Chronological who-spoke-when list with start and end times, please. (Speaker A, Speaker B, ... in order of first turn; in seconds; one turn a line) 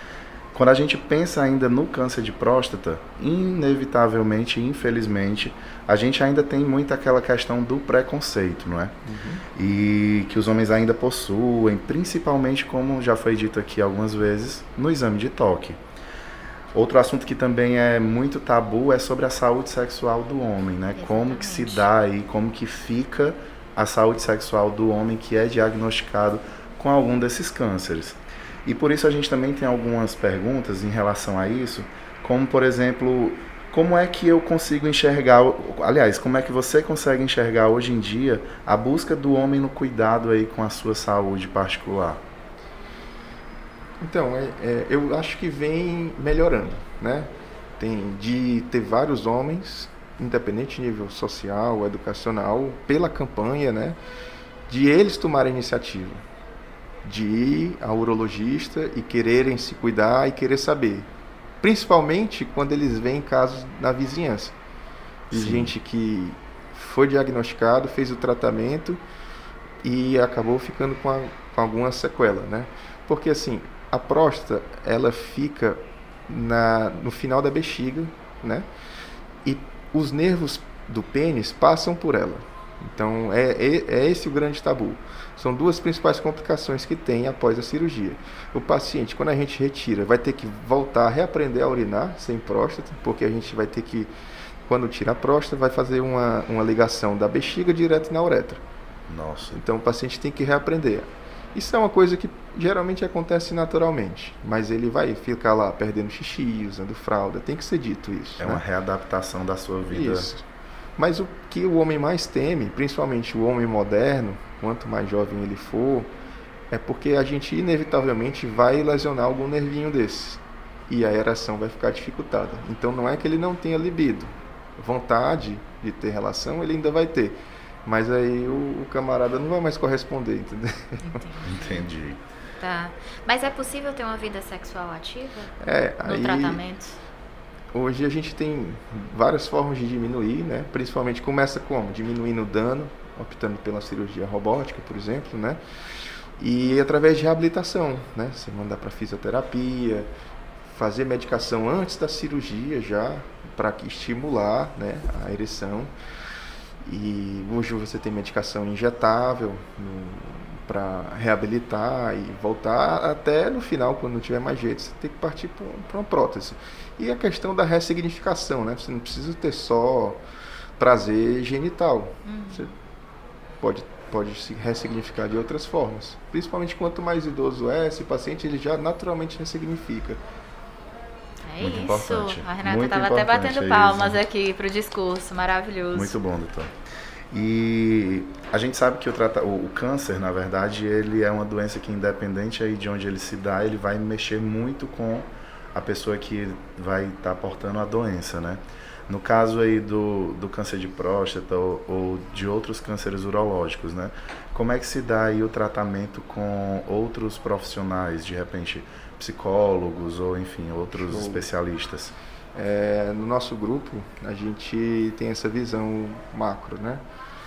Speaker A: 0.5-9.0
Speaker B: 9.1-9.4
Speaker A: 9.6-15.8
Speaker A: 16.7-42.2
Speaker C: 21.0-21.9
Speaker B: 44.0-54.0
Speaker B: 54.7-56.2
Speaker B: 57.0-61.1
Speaker B: 61.6-64.5
Speaker A: 65.3-65.7
Speaker B: 65.3-69.0
Speaker B: 69.8-78.7
Speaker B: 79.4-94.1
Speaker B: 94.7-98.6
Speaker A: 99.1-99.6
Speaker B: 99.5-108.6
Speaker A: 108.4-110.3
Speaker B: 109.9-110.4
Speaker B: 111.0-116.1
Speaker B: 116.7-131.2
Speaker C: 131.0-131.9
Speaker A: 131.4-132.2
Speaker C: 132.6-137.0
Speaker B: 135.6-136.6
Speaker B: 137.7-145.6
Speaker B: 146.4-150.1
Speaker B: 150.7-155.9
Speaker B: 156.8-170.2
Speaker B: 170.8-172.7
Speaker C: 172.2-172.7
Speaker B: 173.6-180.2
Speaker C: 181.5-186.1
Speaker A: 181.6-184.2
Speaker A: 185.9-186.7
Speaker A: 187.3-212.1
Speaker B: 211.0-211.5
Speaker B: 212.5-217.0